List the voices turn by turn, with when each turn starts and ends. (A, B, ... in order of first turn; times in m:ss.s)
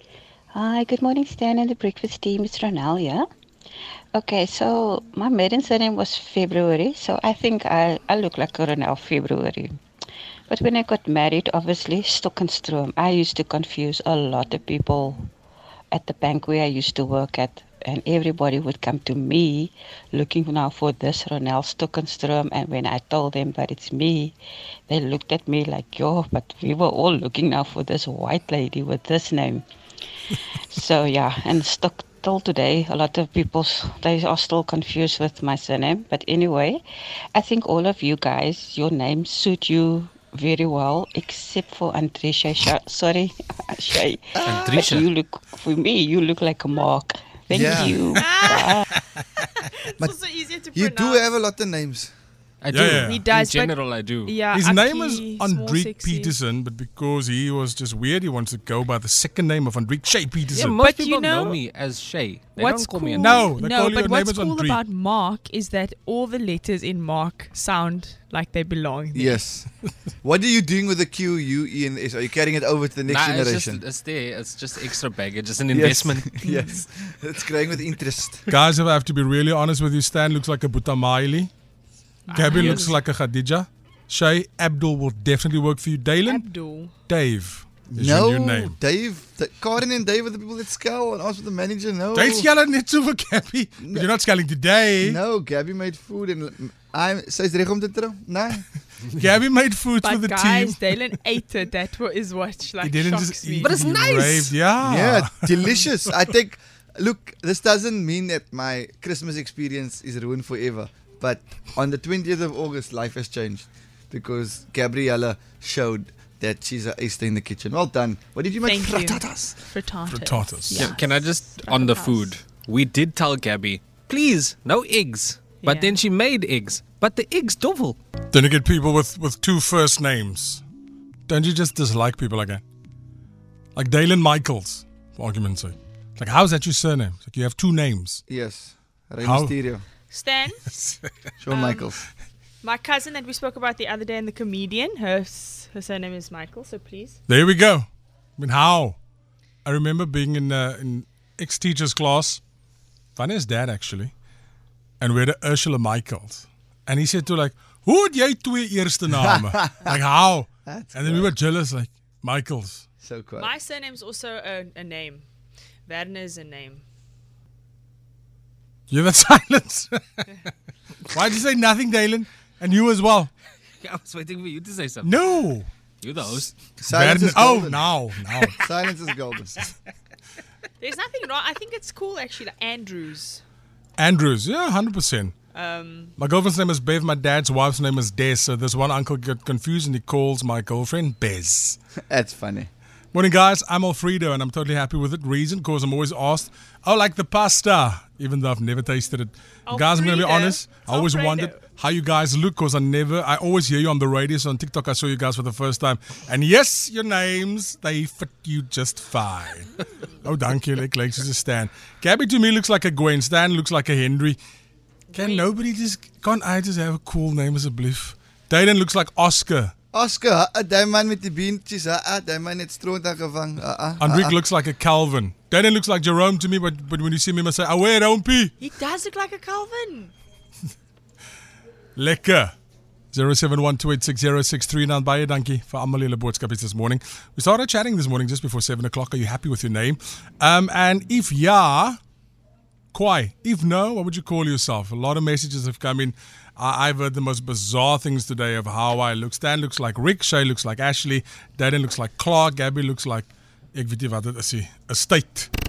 0:00.5-0:03.2 A
0:04.1-0:09.8 A
0:10.5-0:15.3 A
0:15.9-0:24.3 A
0:24.9-0:29.6 A
0:30.7-0:36.8 A
0:37.3-0:48.9 A
0:44.4-0:44.9 B
0:44.4-0:45.1 C
0:47.5-0:48.0 B
0:48.1-0:48.8 D
0:49.6-0:51.3 D
0:50.7-0:52.1 B
0:52.6-0:54.4 C
0:52.7-0:53.2 E
0:52.8-0:56.4 D
0:54.5-1:00.8 E
1:00.5-1:03.4 C
1:00.8-1:01.6 D
1:02.6-1:09.4 D
1:03.2-1:04.8 E
1:09.1-1:09.7 B
1:10.2-1:13.8 B
1:13.1-1:16.4 C
1:15.7-1:18.4 B
1:16.4-1:16.8 D
1:18.5-1:21.5 E
1:22.3-1:23.0 D
1:22.3-1:26.5 E
1:22.5-1:22.9 C
1:26.3-1:26.9 D
1:27.1-1:28.8 E
1:27.9-1:32.5 B
1:32.1-1:35.2 E
1:33.8-1:34.1 B
1:35.0-1:38.6 B
1:39.2-1:40.9 E
1:40.0-1:43.9 D
1:42.8-1:46.1 E
1:43.6-1:44.5 C
1:44.8-1:59.5 B
1:58.6-2:02.4 D
2:00.1-2:00.9 E
2:00.7-2:08.0 C
2:05.6-2:06.0 D
2:08.3-2:10.6 E
2:11.3-2:12.6 E
2:13.7-2:18.2 E
2:18.3-2:19.8 B
2:19.2-2:19.5 E
2:20.1-2:20.6 D
2:21.4-2:22.0 B
2:21.5-2:21.9 D
2:22.6-2:27.2 D
2:27.3-2:27.9 E
2:28.4-2:29.0 E
2:29.6-2:32.4 E
2:33.2-2:34.1 E
2:35.0-2:42.9 E
2:39.2-2:39.9 B
2:40.7-2:41.3 B
2:43.0-2:43.5 B
2:43.4-2:45.2 D
2:45.9-2:46.8 D
2:48.9-2:50.3 E
2:51.1-2:53.3 E
2:53.8-2:55.1 C
2:55.0-2:55.7 E
2:56.0-2:56.5 C
2:56.8-2:57.9 B
2:56.9-2:58.6 E
2:58.6-2:59.5 B
3:00.8-3:03.4 D
3:04.0-3:05.3 E
3:05.5-3:06.1 D
3:06.2-3:11.8 E
3:12.1-3:12.7 B
3:13.1-3:34.4 E
3:19.7-3:21.6 D
3:35.1-3:35.5 D
3:35.1-3:39.7 E
3:39.9-3:44.3 B
3:44.0-3:48.5 E
3:48.6-3:50.1 D
3:52.0-3:52.5 E
3:53.1-4:02.0 E
4:02.9-4:15.5 E